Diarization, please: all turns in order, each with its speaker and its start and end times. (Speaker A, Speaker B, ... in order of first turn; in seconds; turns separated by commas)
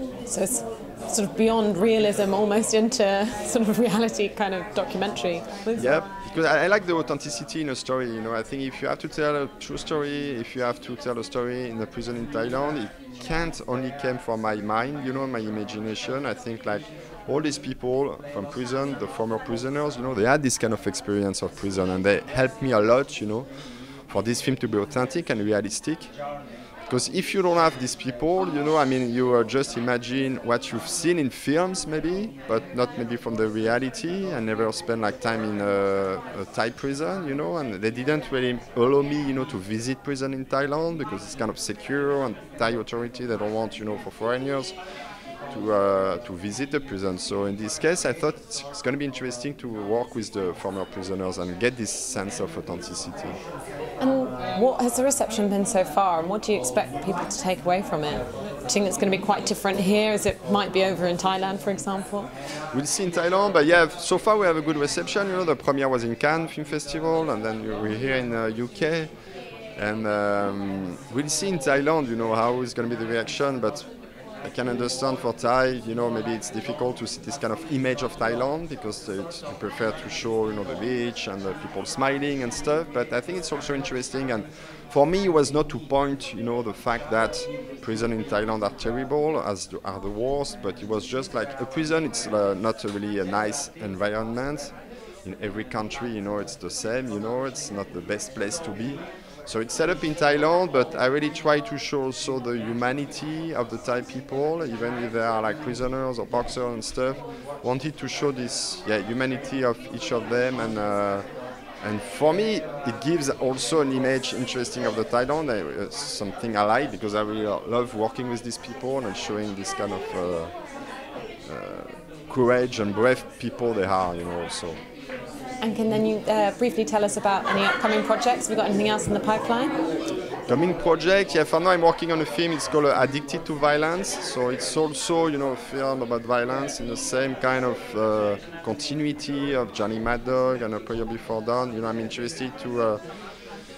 Speaker A: 0.2-5.9, Speaker B: 5.8-23.5, Speaker B: 24.1-26.1, Speaker B: 26.9-44.7, Speaker B: 45.5-53.4, Speaker A: 54.0-62.3, Speaker B: 62.7-69.1, Speaker B: 69.8-73.9, Speaker B: 74.4-94.7, Speaker B: 95.2-111.2, Speaker B: 111.8-120.5, Speaker B: 121.4-124.8, Speaker A: 125.6-129.7, Speaker B: 130.5-143.0